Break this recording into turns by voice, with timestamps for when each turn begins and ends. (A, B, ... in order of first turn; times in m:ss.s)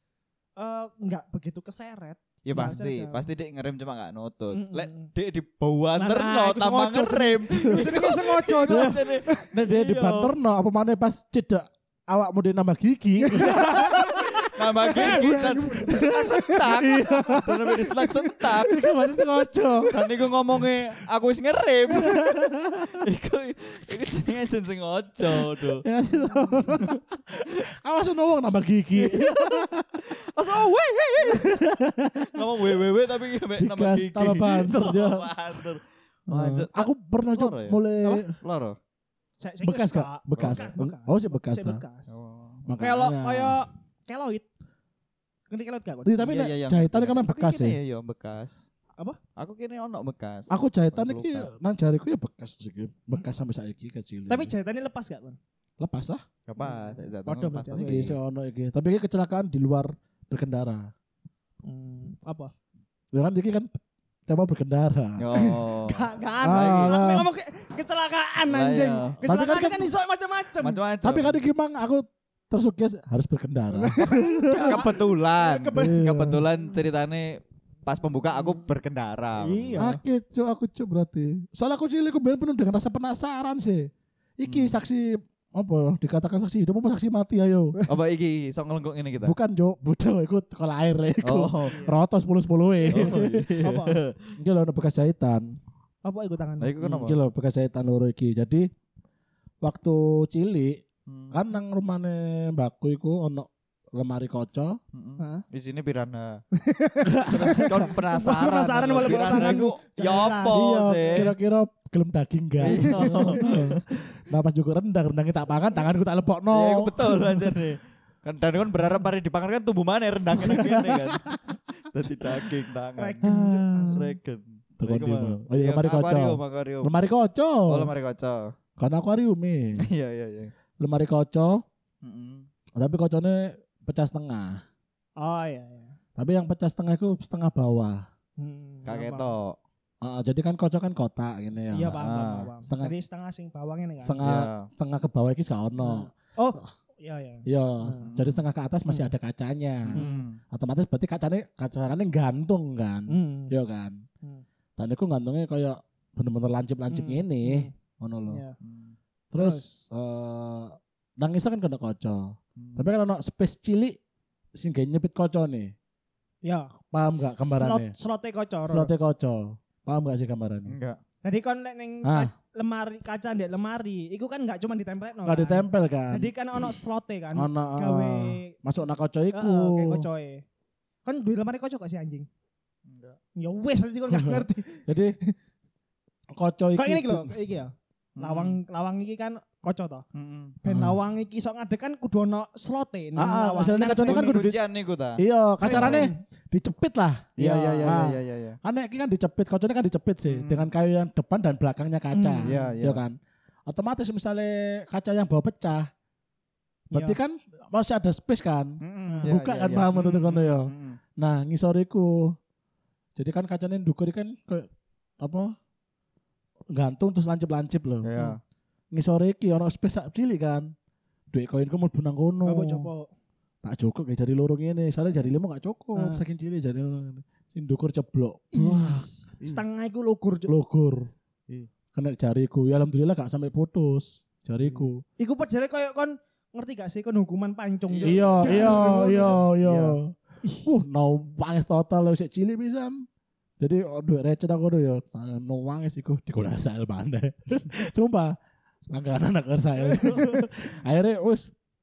0:00.6-0:03.2 A
0:02.4-0:10.3 B
0:04.5-0:05.1 A
0:06.0-0:09.5 A
0:08.7-0:17.8 C
0:13.2-0:18.6 A
0:14.5-0:18.8 B
0:18.5-0:19.9 C
0:19.9-0:25.8 B
0:21.9-0:23.0 C
0:25.3-0:30.0 C
0:29.0-0:29.7 B
0:30.3-0:31.6 B
0:31.2-0:32.5 C
0:32.3-0:37.8 B
0:33.6-0:35.6 C
0:36.3-0:38.4 C
0:38.4-0:38.8 B
0:39.4-0:42.1 A
0:39.6-0:41.8 C
0:40.3-0:40.7 B
0:42.1-0:42.6 B
0:42.6-0:43.6 C
0:42.8-0:44.5 A
0:45.5-0:46.4 A
0:46.0-0:47.8 C
0:46.2-0:48.6 B
0:49.4-0:51.5 B
0:50.5-0:54.5 C
0:54.3-0:55.4 A
0:55.8-0:56.2 C
0:56.5-0:58.1 B
0:56.6-0:58.1 A
0:57.8-1:00.9 C
1:01.6-1:02.5 A
1:03.1-1:03.7 C
1:04.3-1:05.2 C
1:05.2-1:07.1 B
1:05.3-1:10.8 A
1:06.4-1:07.3 C
1:08.5-1:09.2 B
1:09.2-1:09.9 C
1:10.6-1:11.4 B
1:11.0-1:14.8 C
1:13.7-1:16.1 A
1:14.5-1:19.8 B
1:15.8-1:16.4 C
1:19.4-1:20.0 A
1:19.8-1:27.8 C
1:24.4-1:24.8 B
1:27.9-1:29.3 B
1:29.2-1:33.6 C
1:31.2-1:31.9 B
1:32.9-1:34.1 B
1:33.6-1:34.0 A
1:34.4-1:35.6 C
1:36.0-1:36.7 A
1:36.6-1:37.2 B
1:36.8-1:38.7 C
1:39.6-1:44.8 C
1:41.1-1:41.4 B
1:44.9-1:46.4 B
1:45.2-1:45.4 A
1:46.6-1:51.3 A
1:47.0-1:47.9 C
1:47.3-1:51.3 B
1:50.5-1:57.5 C
1:52.6-1:53.8 B
1:52.6-1:53.6 A
1:56.5-2:06.9 B
2:00.3-2:01.4 C
2:02.0-2:02.5 C
2:03.0-2:04.1 A
2:03.2-2:04.1 C
2:04.8-2:07.9 C
2:07.7-2:08.5 B
2:08.8-2:09.8 C
2:09.8-2:10.5 B
2:10.8-2:11.6 C
2:12.0-2:12.4 B
2:12.8-2:14.6 C
2:15.2-2:16.0 A
2:16.2-2:18.0 C
2:18.4-2:19.3 A
2:18.9-2:19.6 B
2:20.0-2:22.0 C
2:21.7-2:24.2 A
2:22.0-2:22.5 B
2:22.6-2:22.9 C
2:24.0-2:26.1 C
2:24.2-2:24.7 B
2:25.8-2:28.1 A
2:27.4-2:34.0 C
2:28.0-2:28.4 B
2:29.8-2:30.4 B
2:29.9-2:30.2 A
2:33.1-2:33.5 A
2:34.8-2:38.4 C
2:36.9-2:37.7 A
2:38.3-2:38.6 A
2:38.6-2:38.9 B
2:39.3-2:44.0 C
2:39.4-2:39.6 A
2:42.6-2:42.9 B
2:44.5-2:45.7 C
2:46.4-2:48.9 A
2:46.9-2:47.9 C
2:48.7-2:50.7 C
2:50.7-2:51.0 B
2:51.2-2:58.5 A
2:52.0-2:52.3 C
2:55.2-2:56.3 C
2:57.4-3:00.0 C
2:59.3-3:00.4 A
3:01.0-3:02.3 A
3:02.9-3:03.2 B
3:03.4-3:05.3 A
3:04.1-3:05.2 C
3:06.4-3:07.3 C
3:06.8-3:10.0 A
3:08.2-3:08.6 B
3:10.1-3:10.6 B
3:10.6-3:14.4 A
3:10.7-3:11.0 C
3:13.2-3:14.6 C
3:14.0-3:16.1 B
3:15.2-3:23.2 C
3:15.6-3:16.2 A
3:17.4-3:18.6 B
3:20.3-3:20.7 B
3:22.1-3:22.8 A
3:22.4-3:23.0 B
3:23.7-3:25.9 C
3:26.9-3:32.4 C
3:26.9-3:27.2 A
3:28.8-3:31.0 B
3:29.1-3:29.3 A
3:33.2-3:34.7 C
3:35.2-3:35.5 C
3:36.7-3:38.1 C
3:38.0-3:38.4 B
3:38.9-3:40.7 C
3:41.3-3:42.9 C
3:42.4-3:43.1 A
3:43.6-3:49.6 C
3:45.9-3:46.2 A
3:48.5-3:50.5 A
3:50.5-3:51.1 C
3:51.9-3:55.0 C
3:55.2-3:59.4 A
3:57.9-4:00.0 B
3:58.0-4:03.0 C
4:03.6-4:08.4 C
4:08.9-4:11.5 C